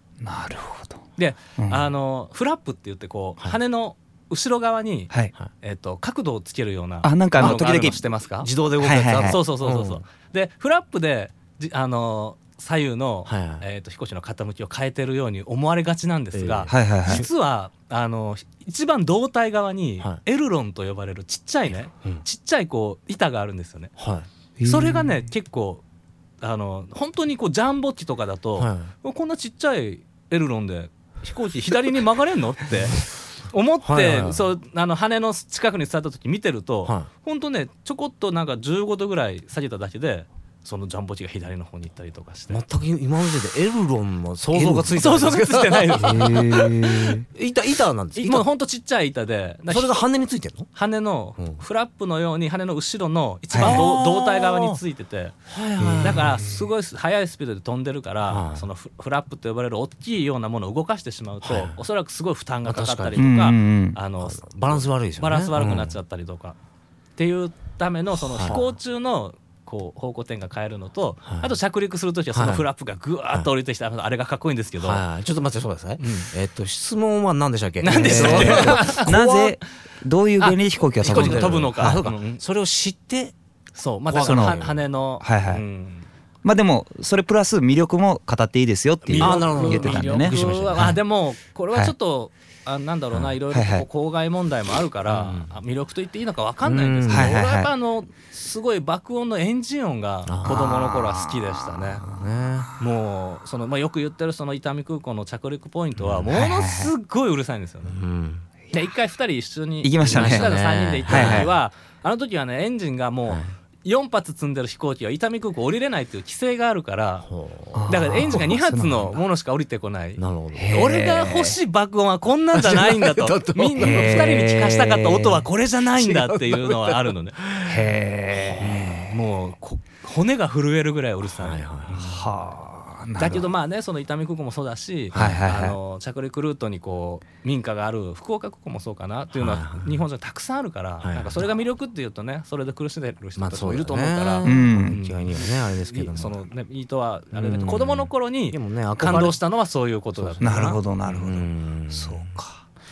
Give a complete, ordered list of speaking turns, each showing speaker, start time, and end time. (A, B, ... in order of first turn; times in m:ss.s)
0:00.2-0:01.0 A
0:01.2-0:05.1 B
0:05.6-0:08.5 B
0:07.0-0:08.0 A
0:07.4-0:07.7 C
0:08.4-0:10.0 C
0:08.8-0:09.4 A
0:09.2-0:23.9 B
0:13.2-0:13.6 C
0:16.3-0:17.3 C
0:16.7-0:17.2 A
0:24.0-0:24.2 C
0:24.6-0:25.1 A
0:24.6-0:25.8 B
0:26.4-0:42.6 B
0:28.6-0:28.9 C
0:33.8-0:34.5 C
0:42.5-0:48.4 C
0:44.5-0:46.3 B
0:46.0-0:47.2 A
0:48.2-0:50.0 B
0:49.7-0:50.7 C
0:50.7-0:55.4 B
0:51.4-0:51.6 C
0:53.5-0:53.9 A
0:53.6-0:54.8 C
0:55.5-0:56.6 C
0:56.0-1:06.6 B
0:58.2-0:58.6 C
1:01.4-1:01.8 C
1:02.6-1:03.3 C
1:03.2-1:04.0 A
1:04.2-1:05.9 C
1:07.2-1:15.0 B
1:08.3-1:08.6 C
1:12.3-1:12.6 C
1:14.8-1:19.3 C
1:16.0-1:16.3 B
1:17.8-1:19.4 B
1:18.0-1:22.1 A
1:20.4-1:22.4 B
1:21.0-1:23.3 C
1:23.8-1:26.0 B
1:24.1-1:24.9 C
1:24.2-1:24.6 A
1:25.2-1:25.6 A
1:26.4-1:31.0 A
1:29.0-1:30.9 C
1:29.1-1:42.0 B
1:33.5-1:33.8 A
1:35.1-1:35.5 C
1:36.6-1:37.3 C
1:37.1-1:37.7 A
1:40.3-1:40.8 C
1:40.5-1:42.7 A
1:42.1-1:42.7 C
1:42.8-1:48.0 B
1:46.0-1:46.3 C
1:46.3-1:46.9 A
1:47.9-1:48.4 C
1:48.7-1:57.3 B
1:49.8-1:50.5 A
1:50.1-1:51.5 C
1:51.1-1:51.5 A
1:57.2-1:58.0 C
1:57.7-1:59.2 A
1:57.9-2:00.2 B
2:00.2-2:00.8 C
2:00.5-2:01.6 A
2:00.7-2:07.4 B
2:02.5-2:04.5 C
2:03.8-2:05.4 A
2:06.0-2:07.9 C
2:07.6-2:09.0 A
2:08.5-2:12.2 B
2:08.6-2:09.0 C
2:11.3-2:12.1 C
2:12.0-2:13.5 A
2:13.2-2:30.8 B
2:15.1-2:15.4 C
2:15.1-2:15.8 A
2:19.3-2:20.0 C
2:21.0-2:21.4 C
2:23.4-2:26.4 C
2:24.4-2:25.0 A
2:27.3-2:29.4 C
2:30.2-2:32.3 C
2:30.4-2:32.6 A